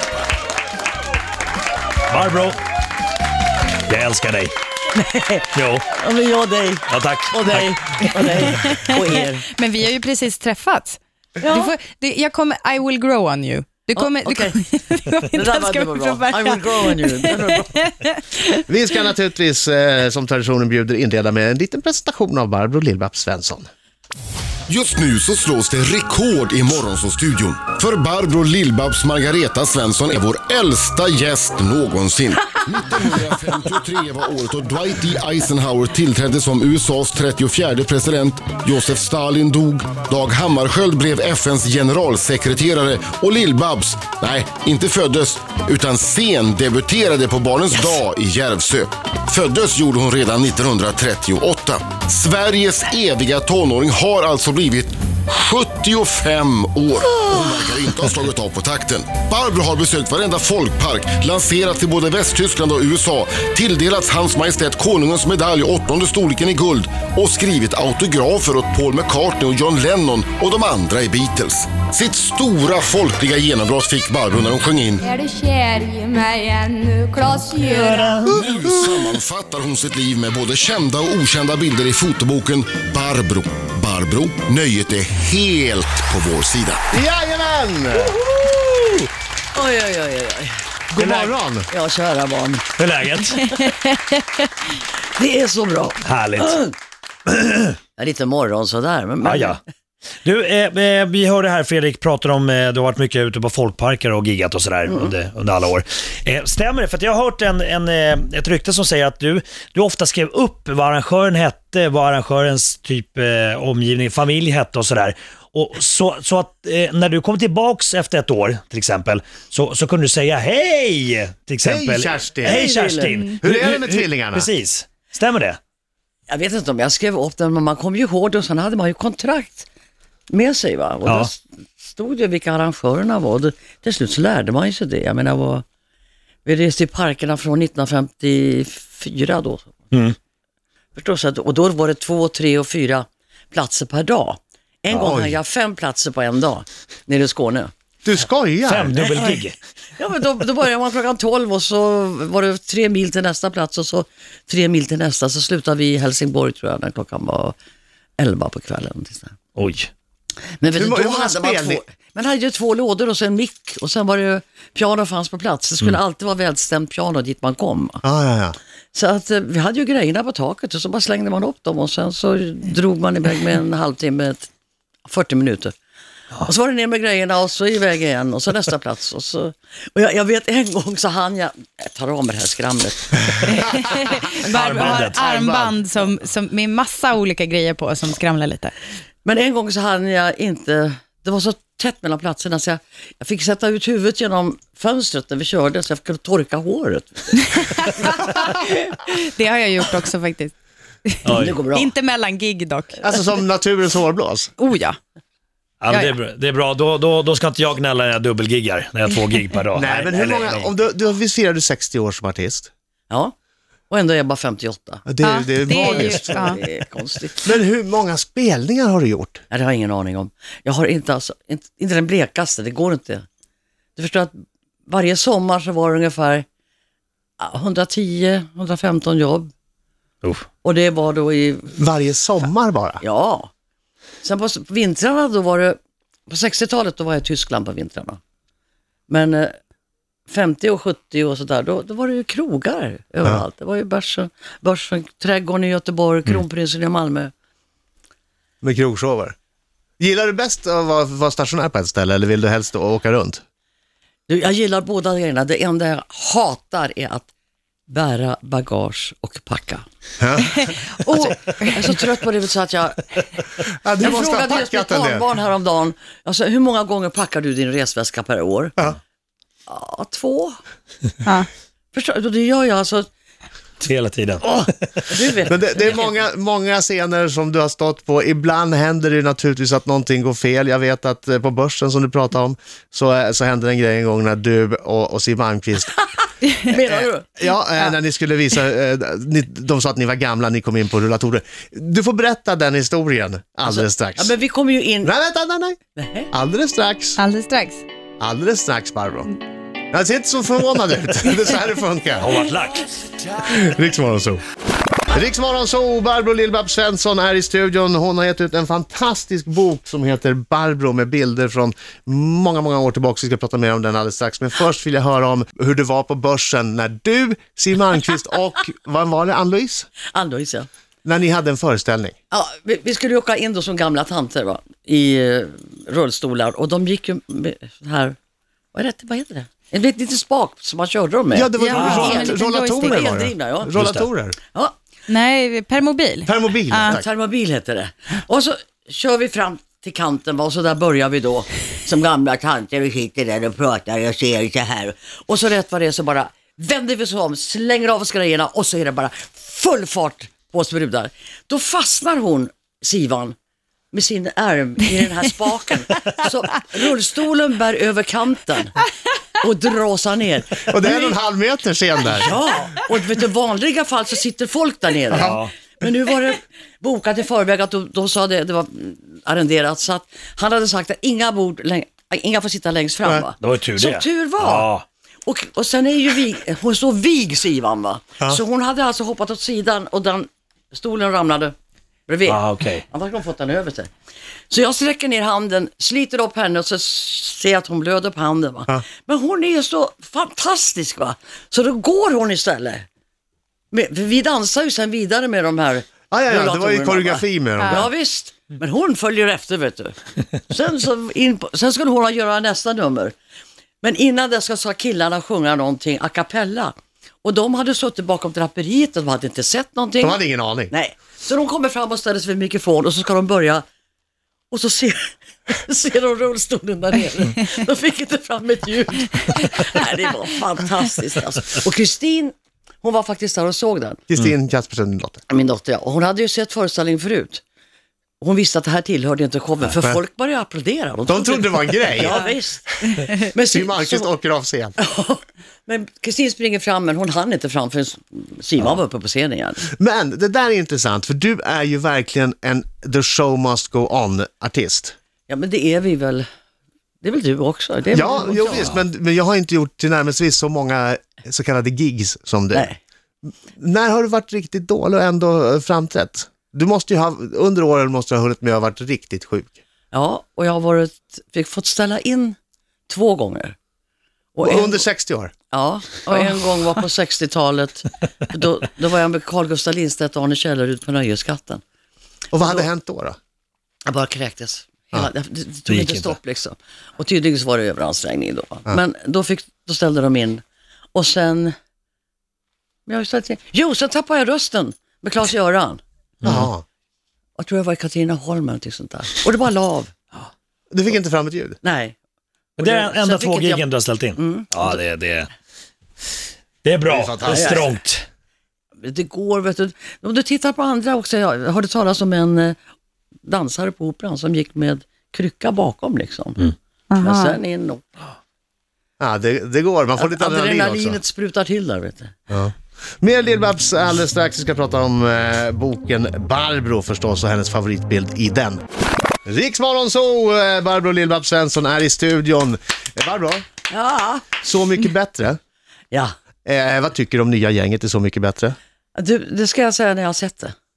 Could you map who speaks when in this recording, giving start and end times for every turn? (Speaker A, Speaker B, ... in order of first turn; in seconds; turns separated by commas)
Speaker A: 2.1-2.6, Speaker A: 3.9-4.5, Speaker B: 4.9-9.5, Speaker A: 5.5-5.9, Speaker A: 6.9-8.4, Speaker C: 8.6-18.6, Speaker B: 11.4-11.7, Speaker B: 14.0-14.6, Speaker B: 15.3-17.8, Speaker D: 18.7-23.7, Speaker E: 24.7-75.1, Speaker F: 75.0-78.2, Speaker A: 77.5-78.5, Speaker D: 78.3-79.1, Speaker E: 78.3-86.8, Speaker D: 86.9-88.2, Speaker B: 89.5-90.6, Speaker D: 90.9-91.7, Speaker A: 91.0-91.3, Speaker B: 91.7-92.7, Speaker A: 92.8-93.4, Speaker B: 93.4-93.8, Speaker B: 95.2-96.7, Speaker A: 96.0-96.7, Speaker A: 97.3-97.8, Speaker B: 98.0-99.6, Speaker A: 99.2-99.6, Speaker A: 100.2-125.6, Speaker D: 121.6-122.7, Speaker B: 122.4-123.3, Speaker D: 123.4-124.5, Speaker B: 126.3-129.7, Speaker B: 130.3-135.6, Speaker A: 131.1-131.3, Speaker B: 136.4-139.7, Speaker B: 141.0-147.7, Speaker A: 144.9-145.2, Speaker D: 145.0-145.4, Speaker D: 148.0-148.9, Speaker A: 148.7-149.6, Speaker B: 149.0-149.4, Speaker B: 150.0-157.6, Speaker B: 158.2-159.4, Speaker A: 159.6-159.9, Speaker B: 160.6-168.0, Speaker D: 160.7-161.8, Speaker D: 168.0-168.6, Speaker B: 168.9-174.5, Speaker B: 175.1-175.7, Speaker B: 176.4-183.6, Speaker C: 183.8-188.7, Speaker D: 184.4-185.8, Speaker B: 184.6-184.9, Speaker A: 184.6-185.2, Speaker B: 189.2-198.8, Speaker C: 197.5-200.5, Speaker C: 201.1-203.2, Speaker A: 201.2-201.6, Speaker B: 201.4-201.9, Speaker D: 203.0-204.5, Speaker C: 204.6-205.0, Speaker A: 205.8-210.7, Speaker D: 209.8-212.7, Speaker B: 213.9-215.0, Speaker D: 215.1-216.4, Speaker C: 215.2-216.6, Speaker B: 215.7-217.6, Speaker D: 217.4-219.4, Speaker B: 219.5-223.2, Speaker B: 224.0-224.3, Speaker B: 224.9-226.5, Speaker B: 227.4-229.5, Speaker B: 230.6-231.7, Speaker D: 231.8-233.0, Speaker B: 233.0-233.5, Speaker B: 234.2-235.8, Speaker B: 236.3-238.2, Speaker B: 239.1-239.6, Speaker B: 240.3-247.3, Speaker D: 248.6-249.3, Speaker D: 250.0-253.4, Speaker B: 254.3-257.3, Speaker B: 257.9-259.8, Speaker D: 260.2-261.3, Speaker B: 261.1-263.1, Speaker D: 263.8-265.2, Speaker B: 264.0-268.8, Speaker B: 269.7-270.6, Speaker B: 271.9-273.1, Speaker A: 273.8-275.1, Speaker B: 274.4-276.1, Speaker D: 275.5-285.9, Speaker B: 286.6-287.3, Speaker D: 286.9-294.3, Speaker B: 293.7-295.1, Speaker D: 295.0-295.8, Speaker B: 296.0-296.3, Speaker D: 296.3-297.2, Speaker C: 297.2-297.8, Speaker D: 298.2-299.3, Speaker D: 299.9-302.4, Speaker A: 302.2-302.9, Speaker D: 303.4-304.4, Speaker D: 305.1-319.9, Speaker B: 320.1-320.7, Speaker D: 321.1-322.1, Speaker B: 322.3-328.2, Speaker B: 328.7-333.7, Speaker D: 331.3-334.4, Speaker C: 331.6-333.1, Speaker A: 331.7-332.2, Speaker A: 333.8-334.1, Speaker C: 335.1-337.0, Speaker D: 336.3-337.1, Speaker B: 336.9-353.4, Speaker B: 353.9-358.7, Speaker B: 359.4-361.1, Speaker D: 360.7-362.3, Speaker B: 362.1-374.7, Speaker D: 365.1-365.4, Speaker A: 365.1-365.5, Speaker A: 373.4-374.9, Speaker B: 375.3-381.6, Speaker B: 382.1-383.9, Speaker A: 382.3-382.9, Speaker B: 384.5-392.9, Speaker B: 393.7-403.1, Speaker D: 396.1-397.9, Speaker C: 397.6-397.9, Speaker B: 403.8-413.6, Speaker D: 410.0-410.7, Speaker B: 414.5-424.0, Speaker D: 424.1-425.2, Speaker B: 425.3-427.4, Speaker B: 428.2-434.1, Speaker D: 431.1-432.3, Speaker D: 433.1-434.8, Speaker B: 434.8-439.7, Speaker D: 439.8-444.9, Speaker B: 445.3-446.3, Speaker B: 447.0-448.7, Speaker D: 447.9-452.7, Speaker A: 448.5-448.8, Speaker B: 452.5-452.8, Speaker D: 453.5-459.6, Speaker B: 459.9-462.4, Speaker B: 462.9-463.6, Speaker B: 464.3-464.9, Speaker D: 464.4-465.3, Speaker B: 465.5-471.6, Speaker D: 472.3-473.2, Speaker B: 472.4-472.7, Speaker B: 473.9-480.4, Speaker A: 475.7-476.2, Speaker B: 480.9-481.6, Speaker B: 482.9-485.8, Speaker A: 486.2-486.5, Speaker D: 486.2-486.6, Speaker B: 487.4-489.9, Speaker D: 490.7-491.6, Speaker B: 491.6-492.0, Speaker A: 492.6-495.3, Speaker B: 492.6-494.8, Speaker A: 496.6-498.1, Speaker D: 496.9-497.6, Speaker B: 497.3-497.7, Speaker B: 498.8-502.6, Speaker B: 503.2-507.8, Speaker C: 506.9-507.4, Speaker D: 509.0-511.0, Speaker B: 510.0-512.1, Speaker D: 512.3-518.6, Speaker D: 519.3-523.4, Speaker B: 523.7-524.3, Speaker D: 524.4-525.4, Speaker D: 526.5-528.6, Speaker B: 529.0-530.5